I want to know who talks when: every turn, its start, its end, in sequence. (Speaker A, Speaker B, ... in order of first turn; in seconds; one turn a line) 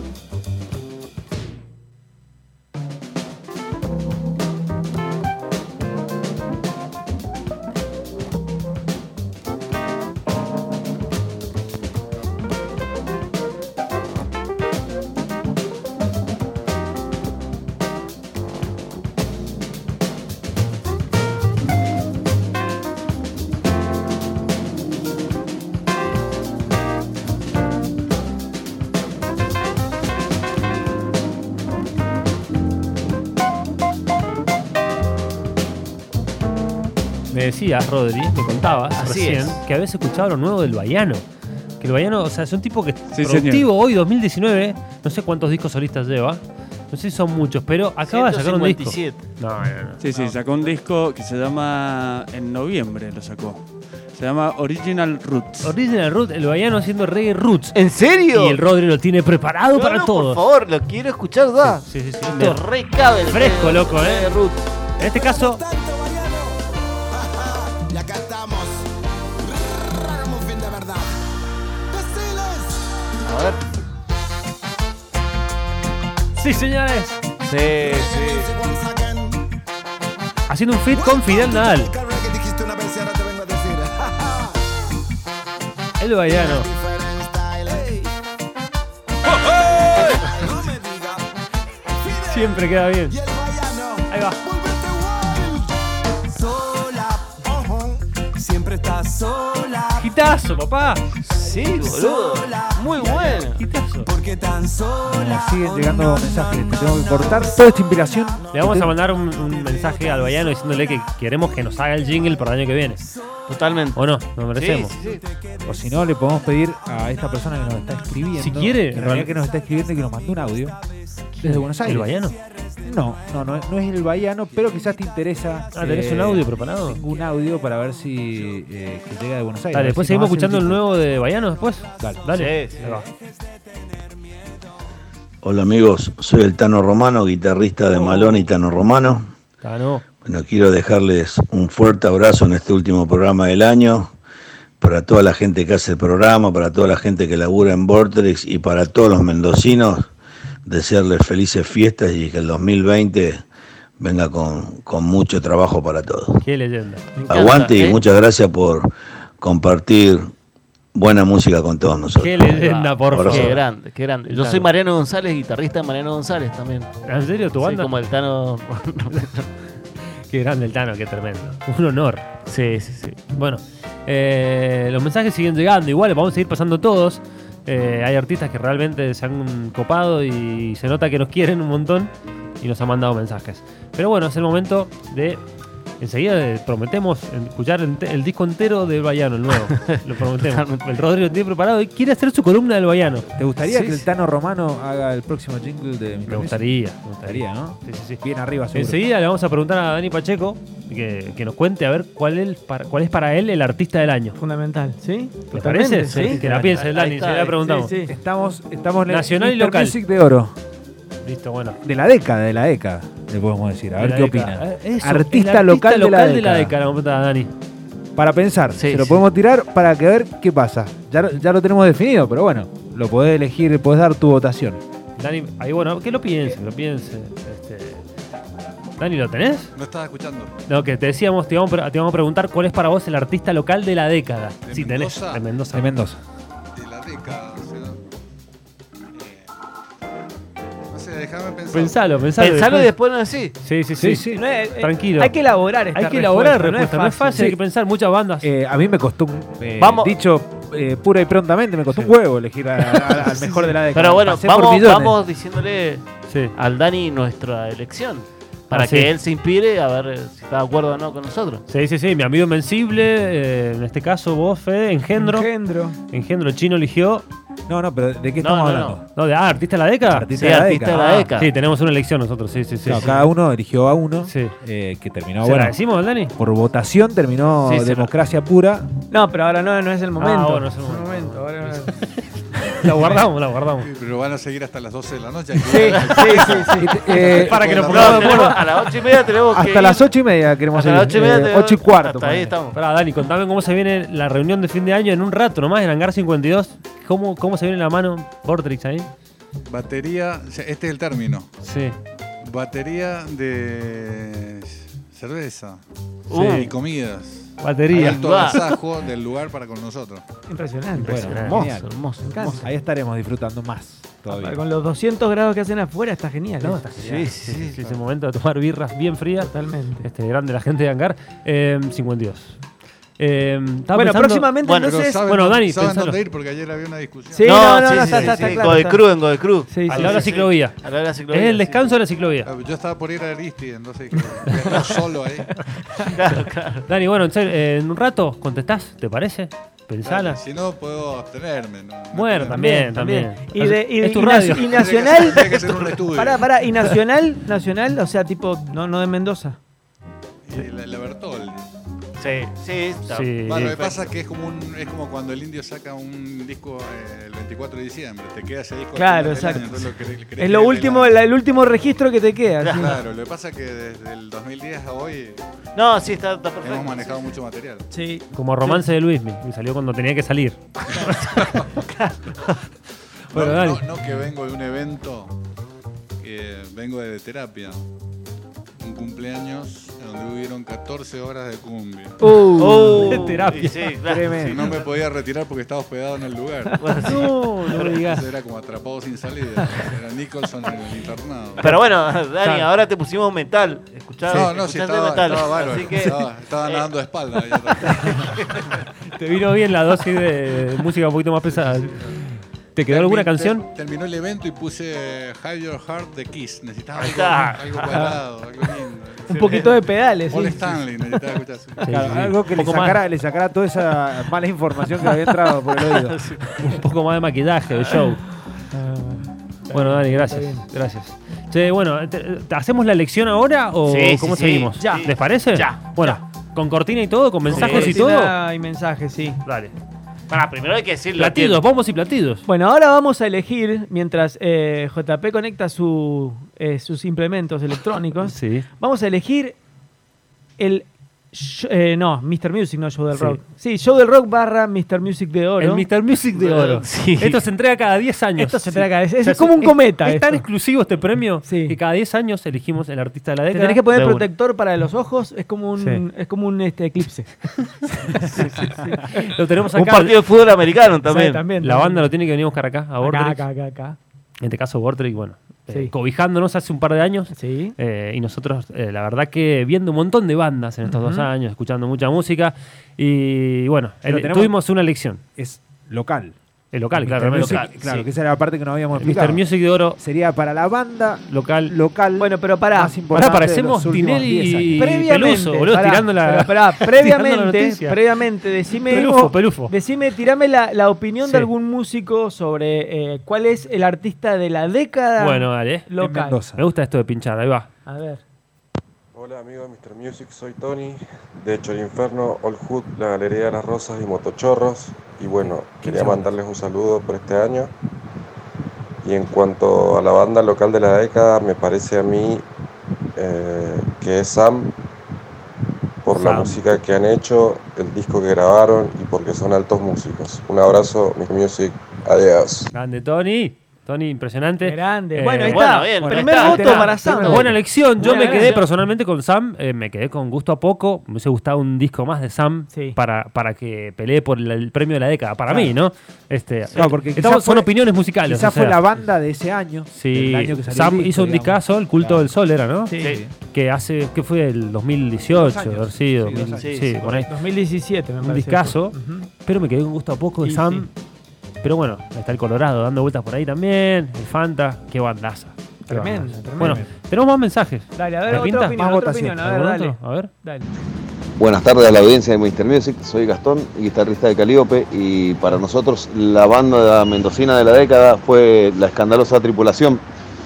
Speaker A: 37.3-41.2
Speaker B: 39.0-39.6
Speaker A: 41.8-50.0
Speaker C: 43.1-43.7
Speaker B: 48.0-49.2
Speaker C: 50.0-55.7
Speaker D: 50.1-50.8
Speaker A: 55.6-57.8
Speaker B: 57.7-58.6
Speaker A: 58.3-60.4
Speaker B: 59.7-64.7
Speaker A: 61.6-62.6
Speaker A: 63.3-64.3
Speaker E: 65.0-68.9
Speaker A: 65.0-65.6
Speaker E: 69.4-71.1
Speaker E: 71.9-73.5
Speaker B: 73.2-73.6
Speaker A: 76.4-77.2
Speaker B: 77.4-78.4
Speaker E: 77.6-79.5
Speaker A: 80.5-81.9
Speaker E: 80.9-84.7
Speaker A: 86.0-86.7
Speaker E: 86.2-88.1
Speaker E: 89.2-91.3
Speaker E: 92.0-100.1
Speaker A: 92.3-93.2
Speaker A: 94.1-94.4
Speaker A: 100.0-101.0
Speaker E: 101.3-108.2
Speaker B: 101.3-103.7
Speaker A: 103.6-104.1
Speaker F: 105.0-108.9
Speaker A: 108.5-113.0
Speaker E: 109.5-110.3
Speaker B: 113.5-114.0
Speaker A: 113.9-114.9
Speaker B: 114.5-115.2
Speaker F: 115.7-120.8
Speaker A: 118.3-119.3
Speaker F: 121.3-122.1
Speaker A: 121.4-122.3
Speaker F: 122.8-130.8
Speaker A: 125.7-127.0
Speaker A: 129.7-133.1
Speaker B: 132.3-133.0
Speaker G: 135.4-139.3
Speaker A: 137.9-138.5
Speaker A: 139.6-140.0
Speaker G: 140.2-144.1
Speaker G: 144.8-150.1
Speaker G: 150.6-153.4
Speaker G: 154.0-156.4
Speaker A: 156.4-157.1
Speaker B: 157.3-158.0
Speaker G: 157.3-160.3
Speaker G: 160.9-163.5
Speaker A: 162.1-163.7
Speaker B: 162.5-166.9
Speaker A: 164.3-164.7
Speaker A: 167.1-167.9
Speaker B: 167.6-169.5
Speaker A: 170.2-172.2
Speaker B: 172.5-173.2
Speaker A: 173.3-185.4
Speaker A: 186.0-193.3
Speaker B: 189.7-190.8
Speaker F: 193.3-196.7
Speaker B: 193.7-194.0
Speaker A: 196.3-198.2
Speaker F: 197.2-199.0
Speaker A: 198.7-204.4
Speaker H: 204.3-206.4
Speaker A: 205.5-207.9
Speaker B: 206.1-207.7
Speaker H: 207.6-208.1
Speaker F: 208.1-210.6
Speaker A: 209.1-210.0
Speaker A: 211.2-211.8
Speaker F: 211.8-216.7
Speaker A: 214.0-217.5
Speaker F: 218.2-224.8
Speaker B: 218.8-219.2
Speaker A: 225.2-228.1
Speaker A: 229.0-229.7
Speaker D: 229.7-230.5
Speaker A: 230.7-235.9
Speaker D: 234.6-235.4
Speaker F: 235.7-236.2
Speaker D: 236.7-238.0
Speaker D: 239.1-239.5
Speaker D: 240.9-242.0
Speaker A: 241.7-242.9
Speaker B: 242.4-243.6
Speaker A: 243.6-245.3
Speaker F: 244.0-244.4
Speaker H: 244.3-247.6
Speaker A: 245.9-248.5
Speaker F: 248.4-255.2
Speaker B: 249.8-250.2
Speaker B: 253.1-253.4
Speaker B: 253.9-261.6
Speaker A: 256.3-256.5
Speaker A: 258.7-259.1
Speaker A: 261.7-265.5
Speaker H: 265.2-266.0
Speaker A: 266.1-267.2
Speaker F: 267.7-269.0
Speaker B: 268.4-269.0
Speaker A: 269.1-270.3
Speaker F: 270.1-271.3
Speaker B: 270.4-271.5
Speaker A: 271.0-273.2
Speaker F: 272.8-275.8
Speaker A: 274.2-274.5
Speaker A: 275.4-276.3
Speaker F: 276.4-278.9
Speaker B: 277.6-278.1
Speaker H: 279.1-281.9
Speaker A: 280.2-283.9
Speaker D: 283.8-288.5
Speaker H: 285.6-287.0
Speaker B: 285.8-286.7
Speaker F: 286.8-288.0
Speaker A: 287.1-288.8
Speaker B: 287.7-290.1
Speaker F: 289.5-292.5
Speaker B: 290.7-292.8
Speaker A: 292.7-299.1
Speaker D: 299.6-301.5
Speaker A: 301.6-301.9
Speaker D: 302.4-310.2
Speaker B: 306.3-306.7
Speaker A: 306.3-306.7
Speaker A: 307.6-308.6
Speaker B: 307.9-308.7
Speaker H: 310.5-311.2
Speaker F: 311.0-314.6
Speaker A: 311.1-311.6
Speaker B: 311.1-312.6
Speaker H: 312.3-312.6
Speaker H: 314.3-316.8
Speaker A: 316.6-319.5
Speaker B: 316.9-317.8
Speaker H: 319.4-320.1
Speaker A: 320.0-322.6
Speaker A: 323.2-324.5
Speaker H: 323.9-325.2
Speaker B: 324.6-324.9
Speaker D: 324.8-328.6
Speaker A: 325.2-326.2
Speaker H: 327.3-329.0
Speaker B: 327.4-331.9
Speaker H: 329.7-330.2
Speaker A: 329.9-332.5
Speaker D: 332.4-335.6
Speaker B: 336.1-336.8
Speaker A: 336.9-340.4
Speaker D: 340.0-342.6
Speaker A: 342.1-344.7
Speaker H: 342.5-349.6
Speaker D: 344.5-346.5
Speaker B: 345.4-345.9
Speaker D: 350.4-351.6
Speaker B: 352.2-354.0
Speaker A: 353.1-353.8
Speaker D: 353.4-361.2
Speaker H: 358.9-363.0
Speaker B: 362.6-362.9
Speaker D: 362.7-365.4
Speaker B: 365.7-367.2
Speaker D: 366.6-367.9
Speaker H: 367.9-368.8
Speaker A: 368.3-371.1
Speaker B: 371.0-372.1
Speaker D: 371.3-371.7
Speaker A: 373.3-373.8
Speaker D: 373.3-375.3
Speaker D: 376.2-377.9
Speaker D: 378.8-382.2
Speaker H: 382.2-383.2
Speaker B: 382.6-384.8
Speaker A: 382.8-383.9
Speaker F: 384.0-384.6
Speaker D: 384.4-386.7
Speaker B: 386.8-388.0
Speaker A: 387.0-388.2
Speaker D: 388.0-391.6
Speaker B: 391.6-396.9
Speaker D: 394.2-398.6
Speaker B: 397.9-398.7
Speaker A: 399.1-402.1
Speaker D: 401.6-402.1
Speaker A: 402.7-403.6
Speaker D: 402.9-411.9
Speaker B: 407.0-408.1
Speaker H: 409.3-410.9
Speaker B: 409.3-409.6
Speaker A: 411.8-413.0
Speaker F: 411.9-416.2
Speaker B: 415.8-416.5
Speaker A: 416.6-418.2
Speaker H: 418.7-420.6
Speaker A: 419.7-428.3
Speaker B: 423.9-426.2
Speaker H: 424.8-425.1
Speaker H: 427.5-429.4
Speaker B: 427.5-428.0
Speaker A: 429.4-429.7
Speaker B: 430.3-431.6
Speaker A: 431.2-432.4
Speaker H: 432.4-439.6
Speaker A: 438.2-438.6
Speaker H: 440.6-445.9
Speaker A: 443.1-443.4
Speaker A: 445.6-453.9
Speaker B: 446.3-447.4
Speaker H: 448.4-450.4
Speaker H: 451.4-451.8
Speaker H: 453.5-457.5
Speaker B: 453.9-454.3
Speaker H: 458.2-459.3
Speaker A: 458.2-458.5
Speaker B: 458.4-458.6
Speaker A: 459.0-460.1
Speaker B: 459.7-461.5
Speaker H: 461.1-462.1
Speaker A: 461.6-463.4
Speaker H: 463.0-464.0
Speaker A: 464.4-475.2
Speaker H: 467.3-467.7
Speaker H: 470.9-471.3
Speaker F: 474.1-474.5
Speaker F: 475.4-476.4
Speaker A: 476.7-477.6
Speaker F: 476.9-479.4
Speaker B: 477.4-478.1
Speaker A: 478.9-480.0
Speaker F: 480.0-484.8
Speaker A: 481.3-481.7
Speaker H: 482.1-483.0
Speaker A: 483.1-488.0
Speaker H: 484.7-496.4
Speaker A: 488.9-489.7
Speaker F: 488.9-489.3
Speaker A: 491.2-491.5
Speaker A: 495.2-495.9
Speaker F: 496.0-496.6
Speaker A: 496.6-497.7
Speaker H: 497.9-498.2
Speaker I: 499.1-507.7
Speaker I: 509.0-512.5
Speaker I: 513.1-514.7
Speaker I: 516.0-522.7
Speaker A: 516.1-516.6
Speaker A: 522.7-525.7
Speaker H: 524.6-528.6
Speaker B: 525.2-527.4
Speaker F: 526.0-527.6
Speaker A: 526.7-538.8
Speaker B: 528.0-528.7
Speaker H: 532.7-533.0
Speaker F: 535.5-535.8
Speaker F: 536.8-542.3
Speaker A: 539.9-547.3
Speaker H: 542.9-543.2
Speaker F: 543.0-543.3
Speaker F: 545.3-547.3
Speaker B: 546.6-547.0
Speaker H: 547.3-549.3
Speaker A: 548.2-550.9
Speaker H: 550.4-550.9
Speaker A: 551.6-558.8
Speaker H: 555.9-556.8
Speaker F: 555.9-556.9
Speaker H: 557.9-560.7
Speaker F: 558.5-559.4
Speaker A: 559.4-560.3
Speaker J: 561.4-570.0